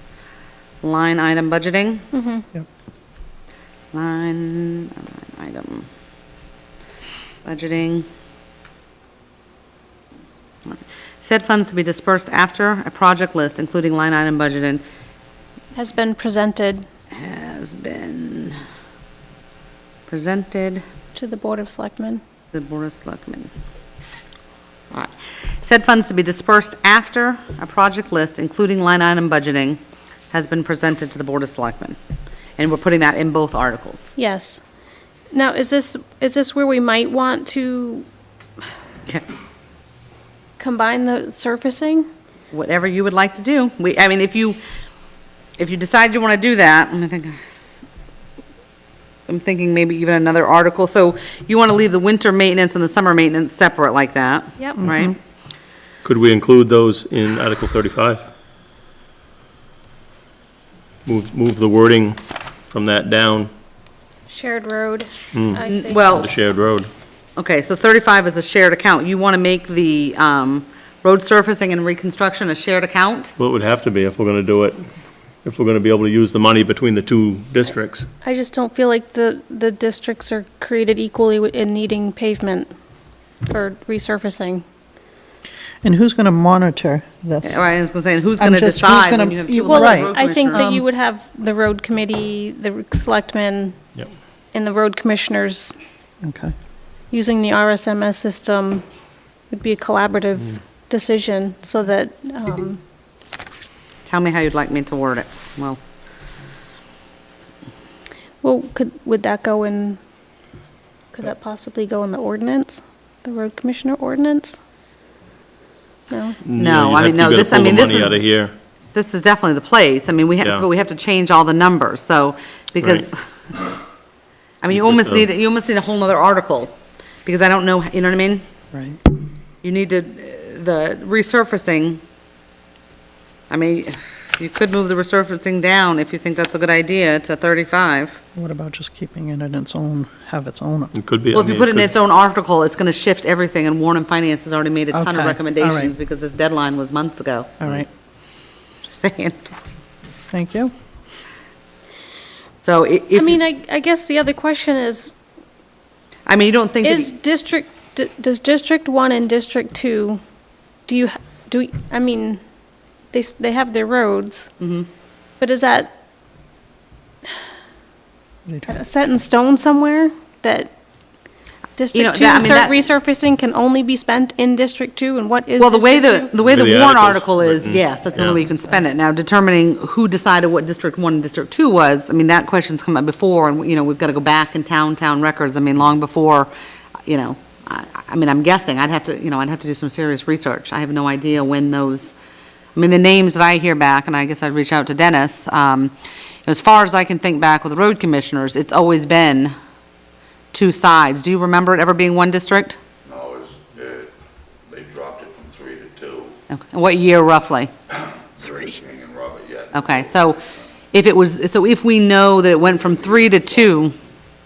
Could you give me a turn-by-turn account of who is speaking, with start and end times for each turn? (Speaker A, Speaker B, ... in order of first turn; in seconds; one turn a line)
Speaker A: 0.8-2.1
Speaker B: 2.1-2.5
Speaker A: 3.9-5.9
Speaker A: 7.5-8.1
Speaker A: 10.7-14.8
Speaker B: 15.8-16.9
Speaker A: 17.2-18.6
Speaker A: 20.1-20.8
Speaker B: 21.1-22.2
Speaker A: 22.5-23.5
Speaker A: 24.9-29.8
Speaker A: 30.3-32.0
Speaker A: 32.6-34.1
Speaker B: 34.2-34.6
Speaker B: 35.3-38.0
Speaker B: 40.6-42.1
Speaker A: 42.5-44.6
Speaker A: 45.6-47.9
Speaker A: 49.3-55.1
Speaker B: 54.6-54.9
Speaker C: 54.8-55.1
Speaker D: 56.0-58.2
Speaker D: 61.0-63.5
Speaker B: 64.3-66.1
Speaker D: 65.3-66.9
Speaker A: 65.7-66.3
Speaker A: 67.4-73.3
Speaker D: 73.4-74.8
Speaker D: 75.4-78.1
Speaker B: 78.2-82.7
Speaker B: 83.5-84.7
Speaker C: 85.8-87.6
Speaker A: 87.4-90.7
Speaker C: 88.4-90.8
Speaker B: 89.6-93.8
Speaker B: 94.5-95.8
Speaker C: 96.2-96.5
Speaker B: 97.1-98.8
Speaker B: 99.5-102.8
Speaker A: 104.1-105.8
Speaker B: 108.4-110.0
Speaker B: 111.1-114.6
Speaker B: 116.1-116.4
Speaker D: 116.5-118.5
Speaker A: 116.6-118.2
Speaker A: 118.9-123.1
Speaker D: 120.4-120.7
Speaker D: 122.8-123.1
Speaker A: 124.6-126.7
Speaker D: 124.7-125.3
Speaker A: 127.2-128.4
Speaker C: 128.7-129.0
Speaker A: 129.6-132.0
Speaker A: 133.5-138.2
Speaker C: 138.3-140.9
Speaker D: 140.9-142.0
Speaker A: 141.3-147.5
Speaker C: 144.9-145.9
Speaker C: 147.6-147.9
Speaker A: 148.9-149.4
Speaker C: 150.3-150.7
Speaker A: 152.6-153.4
Speaker B: 153.2-155.1
Speaker A: 156.3-157.1
Speaker B: 156.8-160.2
Speaker B: 160.9-162.4
Speaker B: 163.1-164.5
Speaker A: 164.6-164.9
Speaker B: 165.4-165.9
Speaker B: 168.7-170.7
Speaker B: 171.8-176.3
Speaker A: 171.9-172.8
Speaker A: 175.6-186.5
Speaker D: 176.4-178.5
Speaker A: 187.1-192.1
Speaker A: 192.8-195.9
Speaker A: 196.5-199.5
Speaker A: 200.5-202.8
Speaker E: 203.0-204.1
Speaker E: 204.7-206.4
Speaker A: 206.5-207.7
Speaker E: 208.4-210.4
Speaker A: 209.7-210.4
Speaker A: 210.9-213.9
Speaker E: 212.7-213.8